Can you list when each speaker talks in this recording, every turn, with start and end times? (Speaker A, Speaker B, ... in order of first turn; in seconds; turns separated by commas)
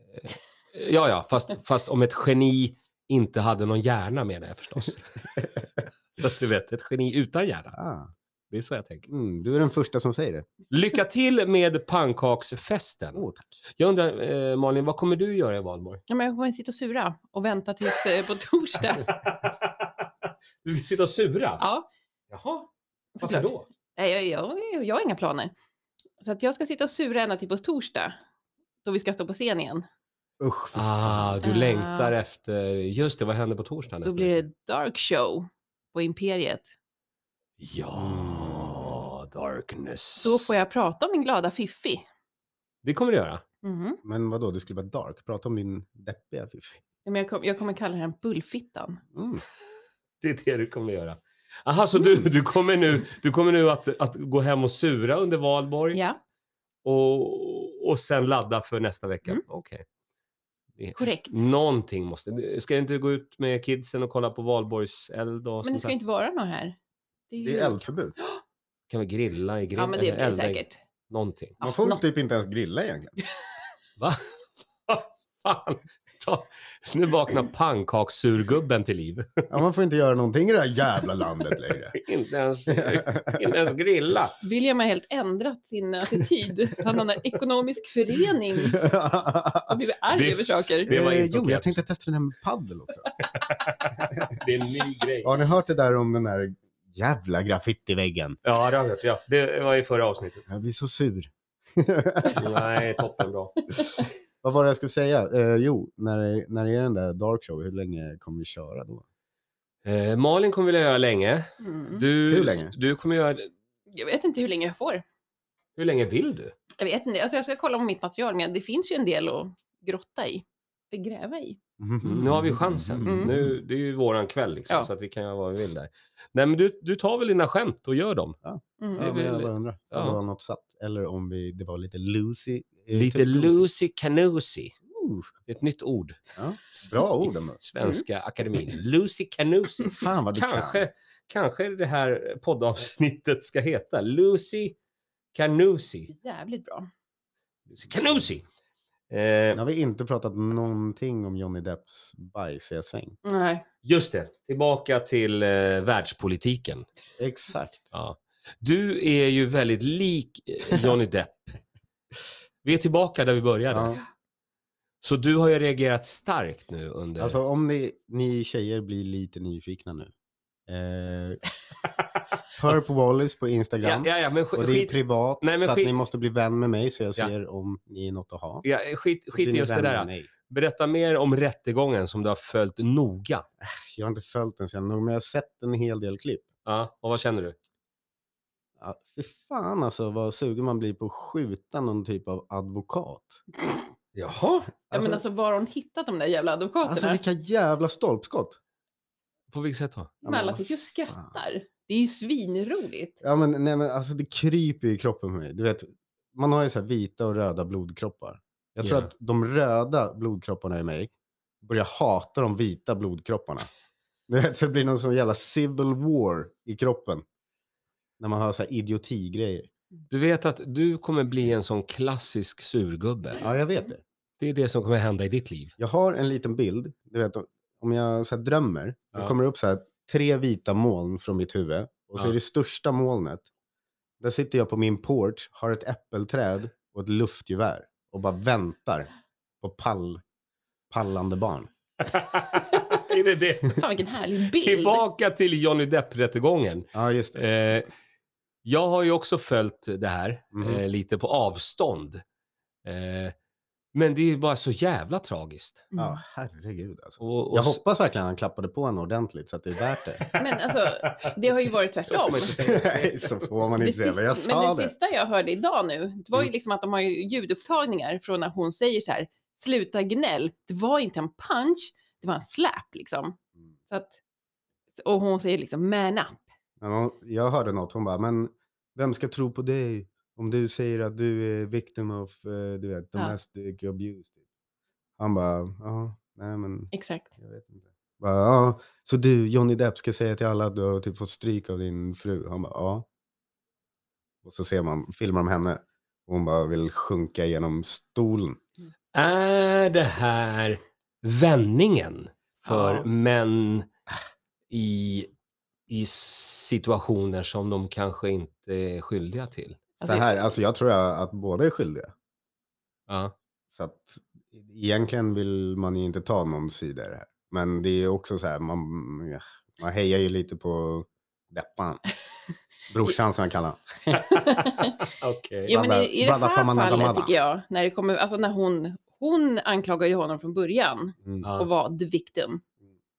Speaker A: 0.1-7.8, Speaker B: 7.7-8.1, Speaker A: 8.5-9.1, Speaker B: 9.1-10.5, Speaker A: 10.7-13.2, Speaker B: 13.1-13.6, Speaker A: 13.8-16.0, Speaker C: 16.1-19.1, Speaker A: 19.0-20.1, Speaker A: 20.6-21.6, Speaker C: 21.6-21.9, Speaker A: 22.3-23.6, Speaker C: 23.2-25.5, Speaker C: 26.2-28.1, Speaker C: 28.8-29.8, Speaker B: 30.4-31.4, Speaker A: 30.7-34.4, Speaker C: 31.4-32.1, Speaker C: 34.0-36.7, Speaker A: 37.6-40.5, Speaker B: 37.9-38.9, Speaker C: 40.2-42.0, Speaker A: 42.8-43.4, Speaker C: 43.6-44.0, Speaker B: 44.0-46.8, Speaker C: 47.0-49.0, Speaker B: 49.1-49.4, Speaker A: 50.2-56.0, Speaker C: 55.9-56.2, Speaker A: 56.8-59.8, Speaker A: 60.8-65.9, Speaker C: 61.0-61.3, Speaker C: 65.6-66.8, Speaker C: 67.3-68.4, Speaker B: 67.4-68.1, Speaker A: 68.9-71.6, Speaker C: 69.8-70.8, Speaker C: 71.6-72.0, Speaker B: 71.6-73.2, Speaker A: 74.0-79.5, Speaker B: 79.5-81.9, Speaker A: 81.9-84.3, Speaker B: 82.7-83.6, Speaker C: 84.4-88.9, Speaker B: 88.6-89.8, Speaker C: 89.7-90.9, Speaker A: 90.1-91.8, Speaker B: 90.9-93.1, Speaker A: 93.3-95.5, Speaker B: 94.1-94.3, Speaker B: 95.2-98.4, Speaker A: 98.4-100.5, Speaker B: 100.5-102.4, Speaker A: 102.3-103.5, Speaker B: 104.4-109.0, Speaker A: 109.8-113.5, Speaker C: 111.6-112.0, Speaker B: 112.3-112.7, Speaker C: 113.9-115.0, Speaker A: 115.8-116.5, Speaker C: 116.8-121.6, Speaker B: 121.8-123.5, Speaker A: 122.0-128.4, Speaker C: 123.0-123.3, Speaker B: 128.4-133.7, Speaker C: 128.8-129.1, Speaker A: 128.9-130.2, Speaker A: 132.9-134.7, Speaker B: 134.9-135.3, Speaker A: 135.5-144.8, Speaker B: 136.4-137.6, Speaker B: 139.9-140.9, Speaker A: 145.3-146.1, Speaker C: 146.1-146.9, Speaker A: 147.7-148.4, Speaker A: 149.1-149.6, Speaker B: 149.5-153.2, Speaker C: 153.2-153.7, Speaker A: 153.8-156.9, Speaker B: 157.2-157.9, Speaker A: 157.9-161.6, Speaker A: 162.6-163.9, Speaker B: 163.7-164.0, Speaker A: 165.0-167.4, Speaker B: 167.2-170.1, Speaker B: 170.7-171.4, Speaker B: 172.6-178.6, Speaker A: 173.8-175.9, Speaker A: 178.6-183.4, Speaker B: 179.3-180.3, Speaker B: 183.6-186.5, Speaker A: 186.6-187.6, Speaker B: 188.8-193.4, Speaker A: 194.1-194.7, Speaker B: 194.9-195.2, Speaker C: 194.9-197.2, Speaker B: 196.8-198.6, Speaker A: 199.5-200.2, Speaker B: 200.2-201.4, Speaker C: 200.2-203.2, Speaker B: 203.2-211.1, Speaker A: 208.8-209.1, Speaker B: 211.6-213.7, Speaker B: 214.3-217.2, Speaker B: 218.2-219.7, Speaker A: 220.1-223.4, Speaker B: 223.4-224.0, Speaker A: 224.4-225.7, Speaker B: 225.8-233.5, Speaker B: 234.2-239.1, Speaker B: 239.6-240.2, Speaker B: 240.9-241.7, Speaker A: 242.0-243.8, Speaker C: 243.7-245.0, Speaker A: 244.5-247.9, Speaker B: 246.9-247.4, Speaker A: 248.6-252.2, Speaker B: 250.5-250.8, Speaker A: 252.8-253.3, Speaker A: 253.9-255.9, Speaker C: 255.9-256.2, Speaker B: 256.0-260.3, Speaker A: 257.2-257.8, Speaker A: 260.2-261.3, Speaker C: 260.4-262.5, Speaker A: 262.0-263.6, Speaker B: 262.5-264.9, Speaker C: 263.8-273.4, Speaker C: 273.9-274.1, Speaker C: 275.0-276.4, Speaker B: 276.8-284.3, Speaker B: 285.2-293.1, Speaker C: 286.9-287.3, Speaker B: 294.4-298.6, Speaker A: 299.1-303.9, Speaker C: 302.6-303.1, Speaker A: 304.7-305.3, Speaker A: 305.9-309.8, Speaker C: 310.0-310.3, Speaker B: 310.0-312.1, Speaker A: 313.1-313.3, Speaker B: 313.7-322.0, Speaker B: 322.9-324.2, Speaker C: 324.2-325.0, Speaker A: 324.6-325.7, Speaker C: 325.7-332.6, Speaker B: 325.7-327.3, Speaker A: 331.4-331.7